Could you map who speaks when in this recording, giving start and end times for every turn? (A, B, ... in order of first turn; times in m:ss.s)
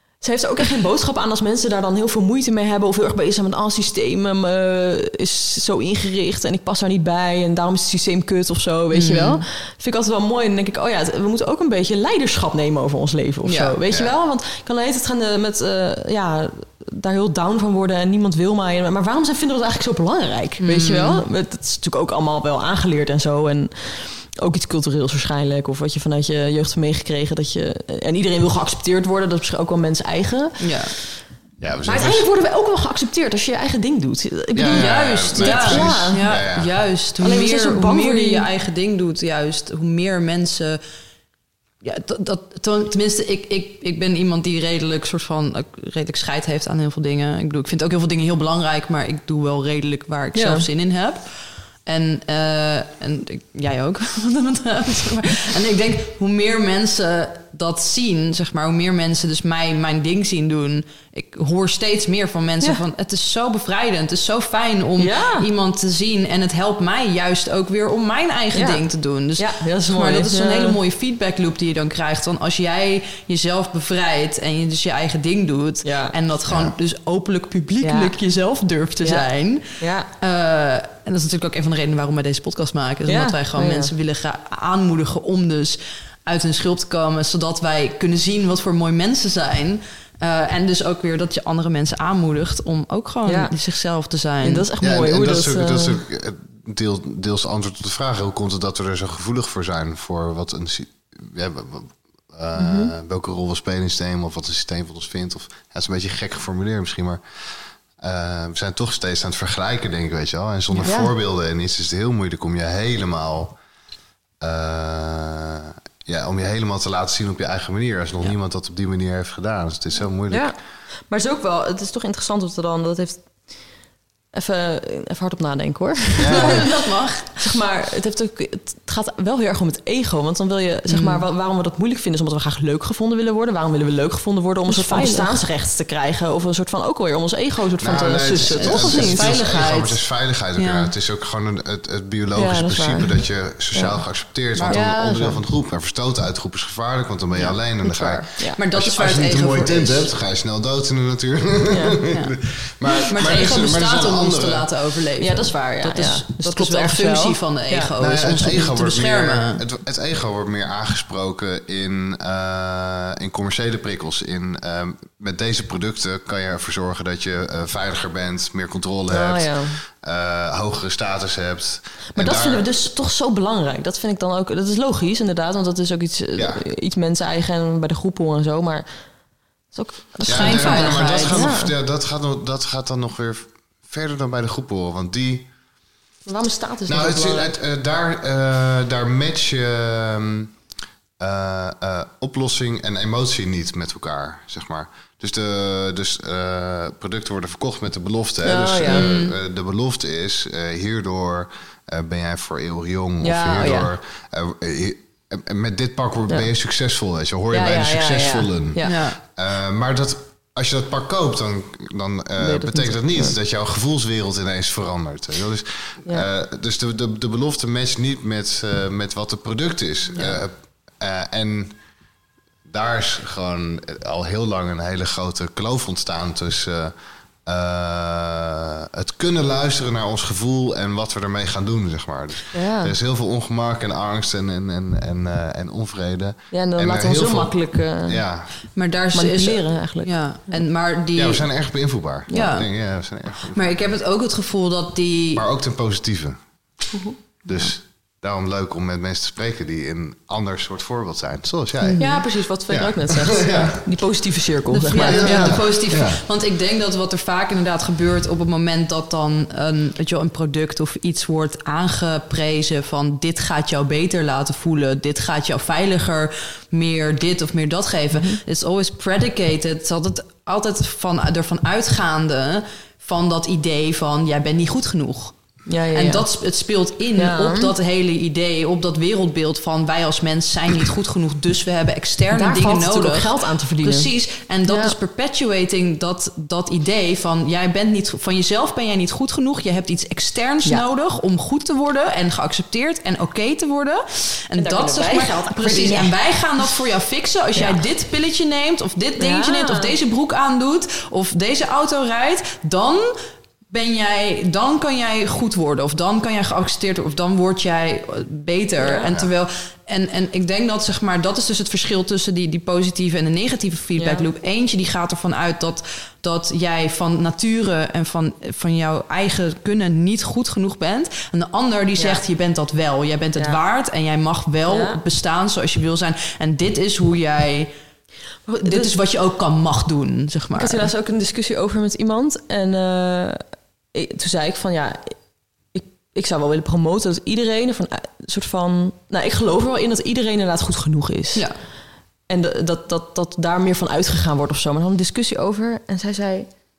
0:00.2-0:30.9 A
0:08.9-0:09.4 B
0:13.4-0:13.8 B
0:20.6-0:21.2 B
0:30.6-0:31.0 B
0:31.6-0:32.3 C
0:31.8-0:36.5 A
0:34.6-0:36.7 C
0:34.7-0:40.8 B
0:37.2-0:38.5 A
0:41.8-0:51.3 B
0:50.3-0:50.6 A
0:51.9-1:34.7 B
1:05.0-1:05.5 A
1:08.5-1:08.8 A
1:09.4-1:10.8 A
1:15.8-1:16.2 A
1:16.5-1:16.7 C
1:17.8-1:18.2 A
1:19.0-1:19.3 A
1:19.8-1:20.1 A
1:23.1-1:23.9 A
1:33.3-1:33.6 A
1:34.4-1:36.0 A
1:34.8-1:47.2 C
1:42.6-1:42.9 A
1:48.0-1:53.6 C
1:50.8-1:51.1 A
1:54.4-2:00.5 C
2:00.3-2:03.6 A
2:04.3-2:19.4 A
2:06.2-2:06.7 C
2:06.3-2:07.4 B
2:10.9-2:11.2 B
2:14.7-2:15.4 B
2:17.8-2:34.7 C
2:18.5-2:20.0 B
2:20.6-2:20.9 B
2:22.4-2:23.2 A
2:23.7-2:24.0 A
2:24.6-2:24.9 B
2:24.7-2:25.4 A
2:27.4-2:28.6 A
2:28.5-2:30.1 B
2:31.7-2:32.0 A
2:33.0-2:39.6 B
2:35.2-2:37.9 A
2:38.0-2:52.6 C
2:49.1-2:49.8 A
2:52.2-2:59.1 A
2:56.4-2:56.6 C
2:59.7-3:01.7 A
3:00.3-3:01.5 B
3:00.3-3:05.5 C
3:06.3-3:07.5 A
3:06.9-3:10.5 C
3:11.2-3:41.8 C
3:18.4-3:19.1 A
3:18.8-3:19.4 B
3:23.2-3:23.9 A
3:27.5-3:29.0 A
3:28.8-3:29.2 B
3:32.4-3:33.4 A
3:42.7-3:58.6 C
3:52.5-3:52.9 A
3:56.5-3:58.2 A
3:58.8-4:01.5 B
3:59.1-4:00.7 A
4:01.2-4:03.9 C
4:02.3-4:02.5 A
4:02.3-4:02.7 B
4:03.5-4:05.4 B
4:05.4-4:06.4 C
4:07.4-4:12.2 C
4:11.8-4:12.2 B
4:12.0-4:15.6 A
4:12.7-4:13.8 C
4:14.7-4:35.4 B
4:15.0-4:16.2 C
4:28.1-4:28.4 A
4:35.7-4:36.3 A
4:35.9-5:03.1 B
4:37.2-4:37.8 A
4:42.3-4:44.1 A
4:44.7-4:45.0 A
4:54.6-4:56.2 A
4:57.6-4:57.8 A
4:59.2-5:00.0 A
5:03.7-5:27.7 B
5:08.8-5:09.1 A
5:14.0-5:14.3 A
5:22.0-5:22.2 A
5:24.7-5:25.0 A
5:28.5-5:29.0 A
5:28.6-5:30.9 B
5:30.5-5:33.4 A
5:33.9-5:35.2 A
5:35.7-5:41.5 A
5:42.3-5:46.5 A